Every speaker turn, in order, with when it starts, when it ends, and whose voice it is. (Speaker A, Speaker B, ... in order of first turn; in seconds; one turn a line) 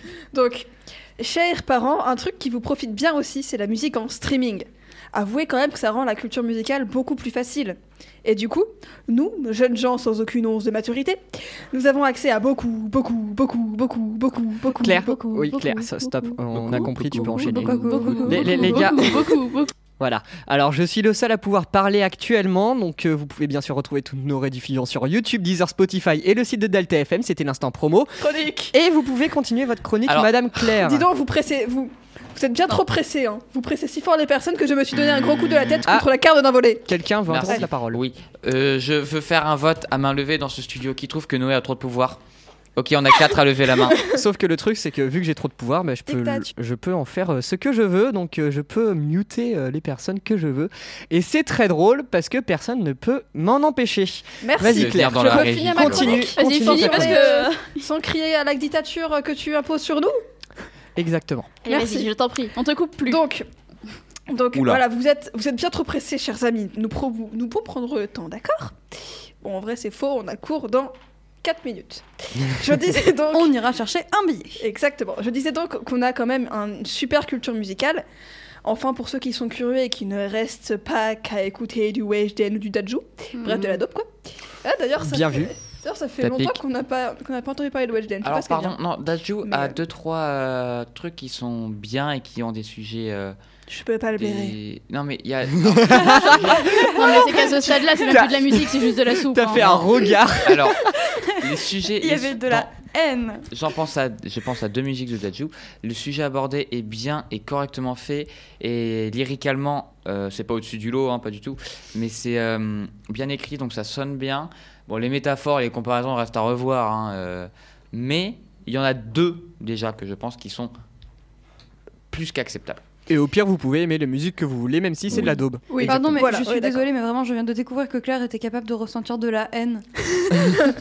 Speaker A: 0.3-15.3
Speaker B: 14.7-19.3
Speaker C: 14.8-16.1
Speaker C: 16.6-19.4
Speaker D: 17.3-19.7
Speaker B: 20.0-28.1
Speaker A: 28.2-28.7
Speaker B: 28.7-31.1
Speaker A: 30.7-36.9
Speaker B: 36.8-38.0
Speaker E: 37.3-42.2
Speaker E: 42.8-44.0
Speaker B: 44.0-57.3
Speaker C: 46.1-46.5
Speaker A: 54.4-60.2
Speaker E: 54.6-56.3
Speaker D: 56.1-57.8
Speaker B: 61.0-61.6
Speaker D: 61.6-63.2
Speaker A: 61.7-62.1
Speaker A: 63.0-63.5
Speaker A: 64.3-73.6
Speaker E: 64.5-64.8
Speaker C: 72.9-74.6
Speaker A: 74.6-78.0
Speaker A: 78.6-88.8
Speaker D: 83.4-83.8
Speaker B: 85.0-85.5
Speaker E: 86.2-86.6
Speaker E: 88.2-93.3
Speaker A: 89.4-89.8
Speaker A: 93.7-94.5
Speaker E: 94.2-96.7
Speaker B: 95.7-96.6
Speaker C: 95.9-97.3
Speaker D: 96.9-99.7
Speaker A: 97.2-97.7
Speaker B: 98.0-100.9
Speaker E: 99.5-99.9
Speaker E: 100.4-100.8
Speaker C: 101.1-103.5
Speaker E: 101.4-102.7
Speaker E: 103.5-120.7
Speaker E: 122.1-122.8
Speaker B: 123.1-126.4
Speaker A: 125.2-126.8
Speaker C: 125.8-130.6